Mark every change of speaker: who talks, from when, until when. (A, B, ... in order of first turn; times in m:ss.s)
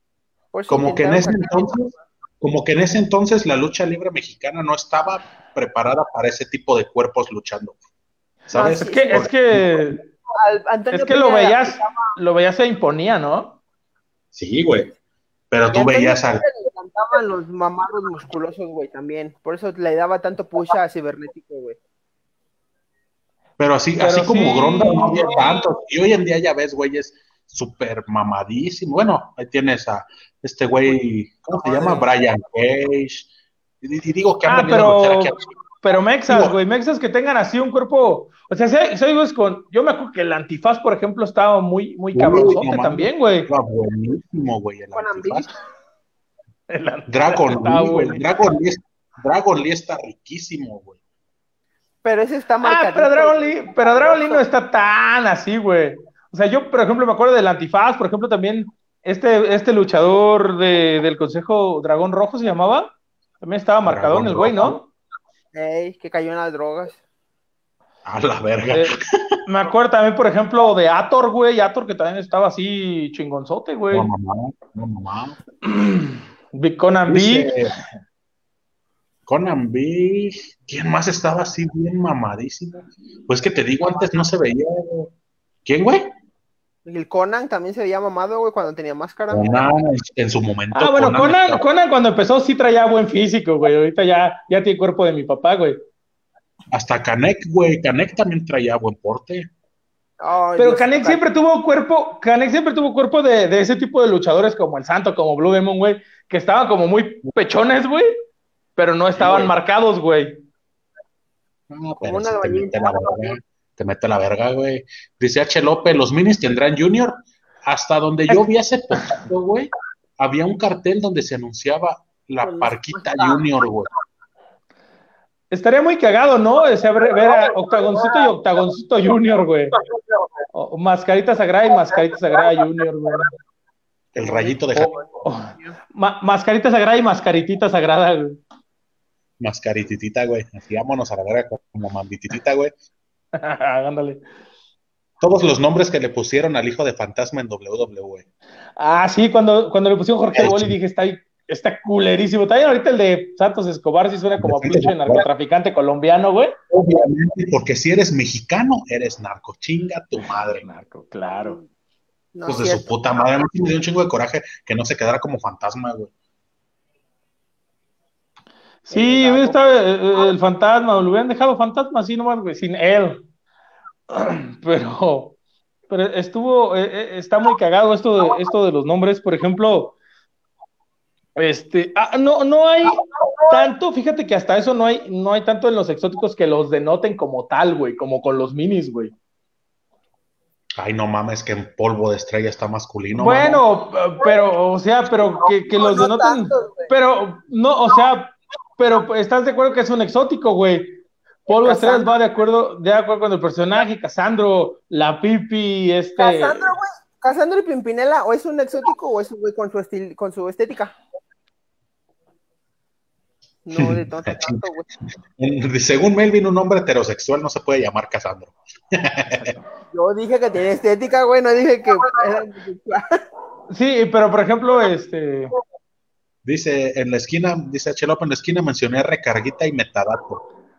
0:00.5-0:02.0 A
0:00.7-0:07.8 B
0:08.5-0:09.9 B
0:08.5-0:09.3 A
0:08.6-0:10.0 C
0:10.3-0:12.1 A
0:10.9-0:13.6 C
0:14.3-0:14.9 B
0:15.5-0:16.4 B
0:15.7-0:21.8 A
0:23.6-0:33.3 B
0:24.0-0:25.6 C
0:31.6-0:32.0 A
0:33.8-0:35.4 B
0:34.5-0:43.5 C
0:36.3-0:36.6 B
0:42.1-0:45.5 B
0:44.9-0:45.5 A
0:46.7-0:48.2 C
0:47.1-0:51.0 B
0:52.0-0:54.4 A
0:52.6-1:04.9 C
1:03.8-1:04.8 B
1:05.5-1:07.0 A
1:08.0-1:09.4 B
1:09.4-1:14.1 C
1:13.9-1:15.4 B
1:15.6-1:17.5 C
1:17.1-1:17.8 B
1:19.3-1:25.1 B
1:25.6-1:26.1 B
1:26.8-1:29.4 A
1:29.3-1:31.6 B
1:30.7-1:35.8 C
1:36.7-1:39.5 B
1:40.2-1:41.3 A
1:40.6-1:48.1 C
1:48.8-1:50.4 C
1:49.2-1:49.5 B
1:51.7-2:03.9 B
1:52.0-1:53.2 A
2:02.4-2:03.4 A
2:05.5-2:09.7 C
2:10.5-2:13.3 C
2:14.1-2:15.0 B
2:14.7-2:18.4 C
2:19.4-2:22.7 B
2:23.3-2:24.2 C
2:25.2-2:28.2 B
2:28.8-2:36.5 C
2:30.3-2:30.7 B
2:34.4-2:35.2 B
2:36.7-2:40.6 B
2:40.2-2:41.6 C
2:41.4-2:41.6 A
2:42.3-2:42.9 A
2:42.5-2:46.1 B
2:48.9-2:53.2 C
2:48.9-2:49.6 A
2:54.1-2:55.4 C
2:55.9-3:00.0 C
3:01.4-3:09.1 C
3:10.8-3:13.6 B
3:13.1-3:26.7 C
3:15.7-3:16.9 A
3:21.6-3:22.1 A
3:26.2-3:31.0 A
3:33.6-3:34.9 A
3:33.8-3:34.6 B
3:35.4-3:39.5 B
3:39.3-3:39.6 C
3:39.9-3:43.2 A
3:43.7-3:45.5 C
3:46.4-3:50.4 B